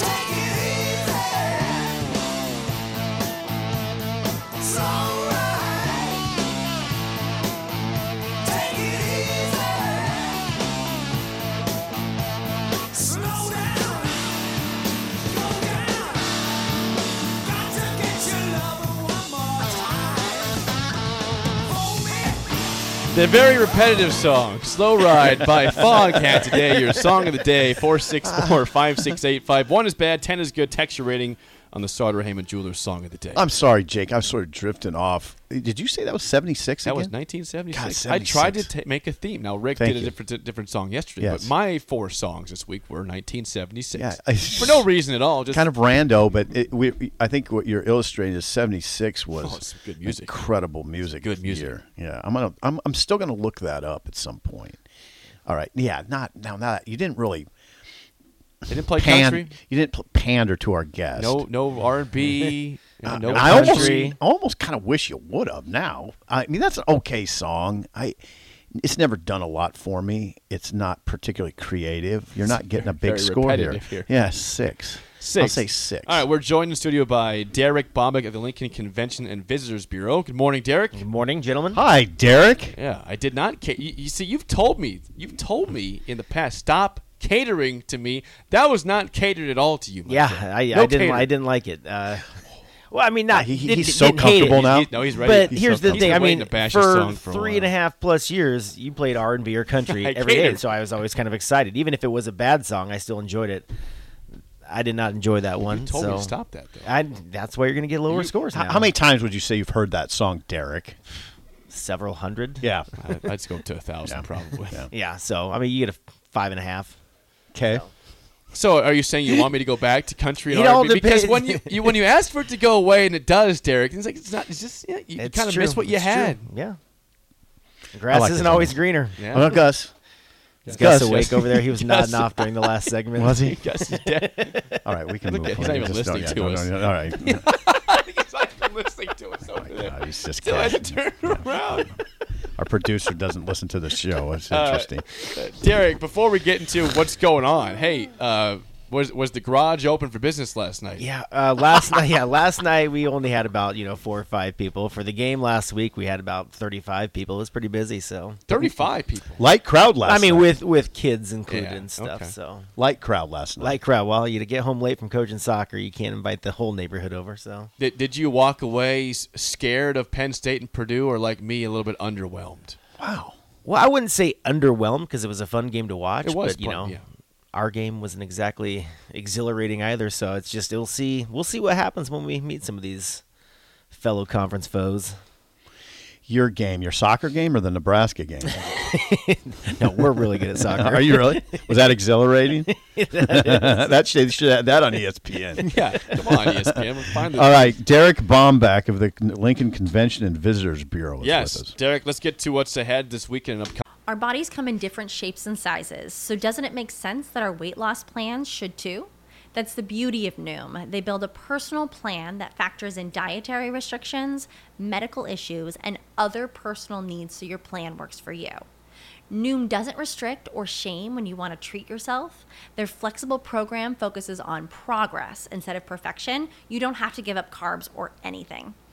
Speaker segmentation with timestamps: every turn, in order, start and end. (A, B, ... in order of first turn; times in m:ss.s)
0:23.1-0:33.5 A
0:28.2-0:28.6 B
0:33.3-0:37.1 B
0:36.8-0:45.7 A
0:37.7-0:38.7 B
0:39.8-0:40.1 B
0:41.2-0:41.5 B
0:43.9-0:44.9 B
0:45.5-0:54.8 B
0:49.3-0:50.4 A
0:51.2-0:51.7 A
0:55.4-0:57.5 B
0:58.7-0:59.5 A
0:58.9-1:01.4 B
1:01.2-1:04.1 A
1:03.0-1:08.2 B
1:03.3-1:04.2 C
1:08.7-1:16.2 B
1:12.4-1:14.1 A
1:15.2-1:21.0 A
1:20.9-1:21.8 C
1:21.7-1:22.8 B
1:22.7-1:31.3 A
1:30.1-1:32.3 C
1:32.9-1:43.7 C
1:33.3-1:36.3 B
1:34.2-1:37.7 A
1:39.8-1:40.7 A
1:44.6-1:46.3 C
1:45.6-1:46.9 A
1:46.8-1:48.9 C
1:48.4-1:51.0 B
1:51.7-1:52.6 C
1:53.0-1:54.9 A
1:54.0-1:54.9 B
1:54.9-1:56.9 C
1:57.5-1:57.8 B
1:58.5-2:06.5 A
2:00.5-2:02.0 C
2:05.2-2:06.8 C
2:07.9-2:09.2 C
2:08.1-2:09.9 B
2:09.2-2:09.6 A
2:10.6-2:12.7 A
2:10.7-2:13.4 C
2:10.7-2:11.7 B
2:13.2-2:13.6 B
2:13.3-2:22.0 A
2:14.1-2:14.6 C
2:14.8-2:17.4 B
2:19.5-2:22.0 B
2:22.6-2:25.1 B
2:24.5-2:31.0 A
2:31.0-2:38.4 C
2:38.5-2:39.4 A
2:39.4-2:40.5 B
2:40.0-2:42.7 C
2:41.4-2:42.3 A
2:42.8-2:43.8 B
2:43.6-2:47.7 C
2:47.8-2:52.8 A
2:53.0-2:53.3 B
2:53.6-2:57.0 C
2:56.2-2:57.0 A
2:57.5-3:03.2 C
3:03.9-3:05.1 C
3:06.3-3:08.6 B
3:08.6-3:11.7 C
3:10.6-3:21.7 B
3:12.8-3:13.9 C
3:15.6-3:17.8 A
3:21.2-3:23.8 A
3:24.1-3:38.6 D
3:39.3-3:48.7 D